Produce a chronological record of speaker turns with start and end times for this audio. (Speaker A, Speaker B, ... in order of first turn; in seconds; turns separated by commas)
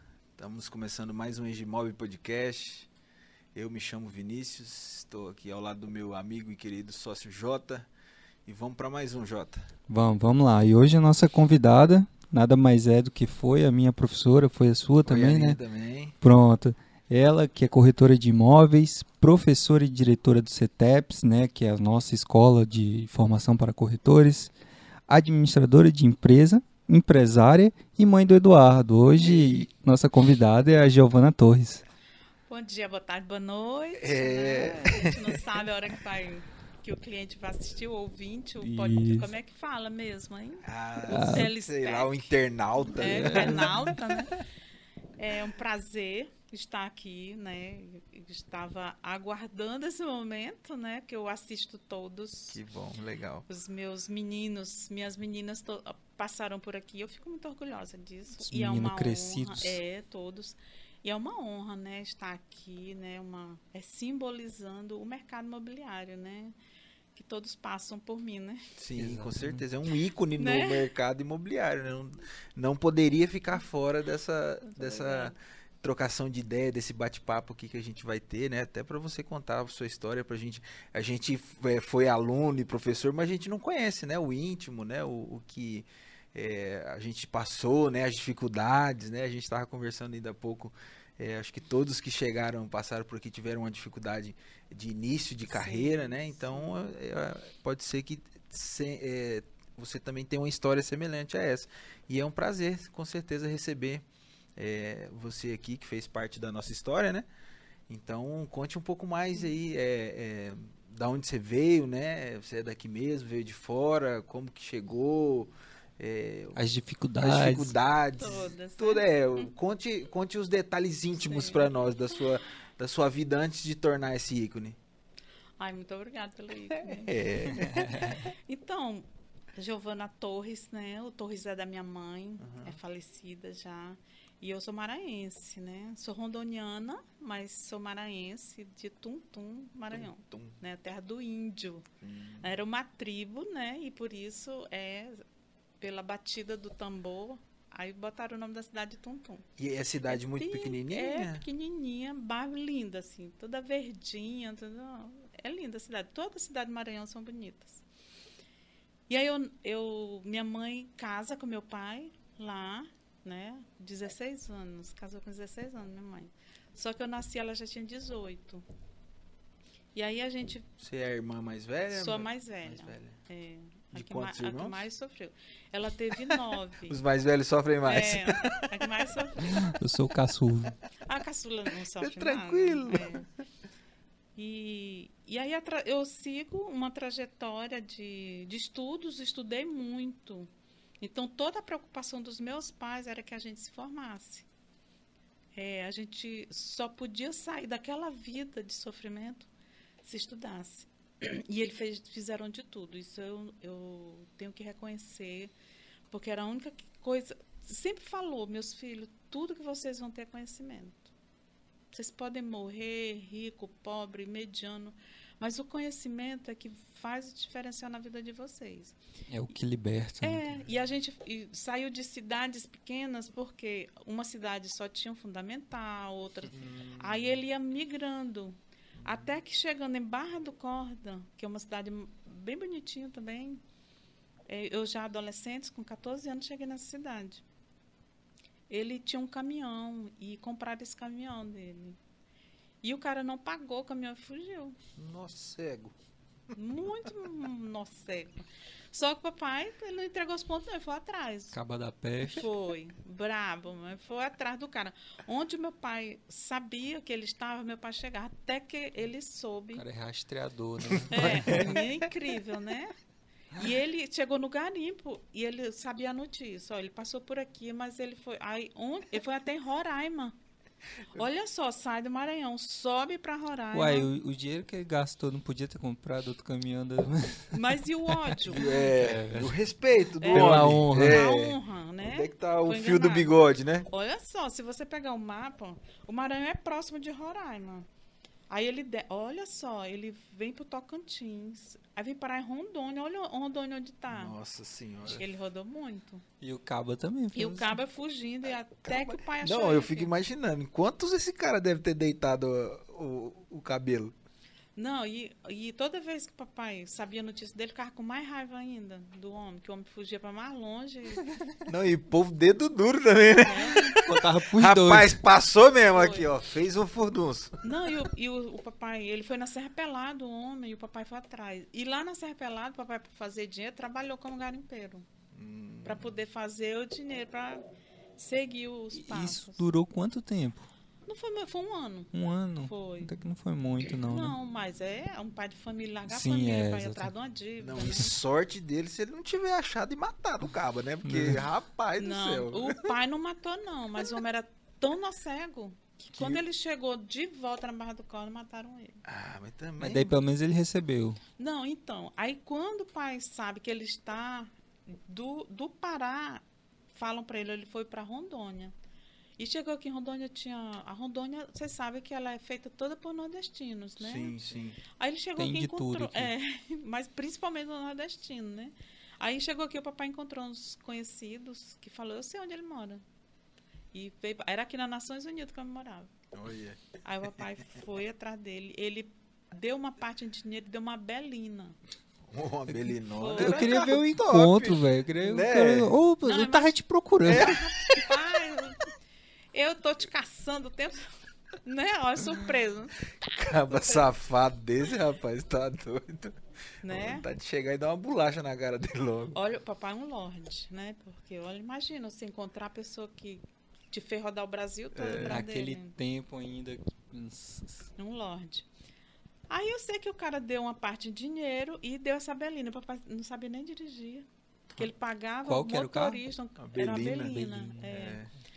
Speaker A: 0.4-2.9, Speaker A: 3.5-7.9, Speaker A: 8.5-9.7, Speaker B: 9.9-15.6, Speaker A: 15.0-16.1, Speaker B: 16.2-24.5, Speaker B: 25.1-31.8, Speaker A: 29.2-29.7, Speaker C: 32.5-44.4, Speaker A: 34.0-35.4, Speaker B: 38.6-39.3, Speaker A: 40.6-44.3, Speaker B: 41.1-41.5, Speaker B: 43.0-43.9, Speaker C: 45.2-52.6, Speaker A: 52.5-53.5, Speaker C: 53.5-66.5, Speaker B: 58.5-59.8, Speaker C: 67.1-68.6, Speaker A: 68.8-104.1, Speaker B: 69.0-69.6, Speaker C: 70.4-70.9, Speaker C: 74.6-75.3, Speaker C: 95.5-96.9, Speaker A: 104.6-107.3, Speaker A: 107.9-116.6, Speaker B: 116.6-117.8, Speaker A: 117.2-124.8, Speaker C: 118.2-119.5, Speaker C: 121.2-122.2, Speaker C: 125.6-141.9, Speaker A: 126.7-128.2, Speaker B: 127.6-128.2, Speaker A: 132.4-132.8, Speaker A: 139.9-140.6, Speaker A: 142.0-142.5, Speaker C: 142.4-145.2, Speaker C: 145.8-149.4, Speaker A: 149.6-151.5, Speaker C: 150.1-157.8, Speaker C: 159.1-168.7, Speaker C: 169.9-170.7, Speaker A: 170.8-173.2, Speaker C: 171.9-177.0, Speaker A: 173.9-174.9, Speaker A: 176.2-178.9, Speaker C: 177.8-179.7, Speaker B: 179.5-180.8, Speaker C: 181.1-183.3, Speaker A: 182.0-183.3, Speaker C: 184.4-190.5, Speaker C: 191.0-194.5, Speaker C: 195.6-199.5, Speaker C: 200.0-205.5, Speaker C: 206.1-211.1, Speaker C: 211.9-219.0, Speaker B: 219.3-220.6, Speaker C: 220.2-233.6, Speaker A: 226.5-227.4, Speaker A: 229.0-229.3, Speaker C: 234.5-237.4, Speaker C: 238.7-242.0, Speaker C: 242.8-244.8, Speaker A: 245.0-245.9, Speaker C: 246.5-251.6, Speaker B: 251.5-252.5, Speaker C: 252.3-259.8, Speaker B: 259.7-261.7, Speaker A: 260.8-262.1, Speaker C: 261.1-262.9, Speaker C: 263.5-270.4, Speaker C: 271.1-274.1, Speaker B: 273.7-279.6, Speaker C: 277.5-278.8, Speaker A: 278.5-283.9, Speaker C: 280.2-283.3, Speaker B: 280.2-281.2, Speaker C: 283.9-287.9, Speaker C: 288.5-294.4, Speaker A: 294.1-295.2, Speaker C: 295.1-296.2, Speaker B: 296.4-297.8, Speaker C: 297.4-300.1, Speaker A: 298.9-304.1, Speaker C: 304.8-311.4, Speaker A: 311.7-317.7, Speaker C: 313.4-314.0, Speaker B: 314.0-315.2, Speaker C: 315.9-316.3, Speaker C: 317.6-325.1, Speaker A: 325.3-326.1, Speaker C: 325.9-327.6, Speaker C: 328.2-329.7, Speaker B: 328.9-330.7, Speaker C: 331.1-333.1, Speaker B: 332.1-334.4, Speaker C: 333.9-338.2, Speaker B: 336.1-337.1, Speaker A: 337.6-342.9, Speaker B: 341.0-341.5, Speaker C: 342.0-349.0, Speaker A: 346.1-346.4, Speaker A: 349.1-350.2, Speaker B: 349.8-351.2, Speaker C: 351.4-358.7, Speaker C: 359.4-373.0, Speaker A: 364.0-364.8, Speaker B: 365.4-366.3, Speaker C: 373.9-376.1, Speaker A: 376.3-376.8, Speaker C: 377.0-381.8, Speaker A: 382.3-386.0, Speaker B: 382.7-387.6, Speaker C: 383.2-383.9, Speaker C: 386.2-386.8, Speaker A: 387.2-388.1, Speaker C: 387.3-388.9, Speaker C: 389.5-391.1, Speaker C: 391.6-394.1, Speaker A: 393.2-399.4, Speaker C: 396.8-397.3, Speaker C: 399.3-405.9, Speaker A: 404.9-405.4, Speaker B: 405.1-407.9, Speaker C: 408.0-408.7, Speaker C: 409.5-418.3, Speaker B: 415.4-416.2, Speaker A: 416.6-418.3, Speaker B: 417.2-417.8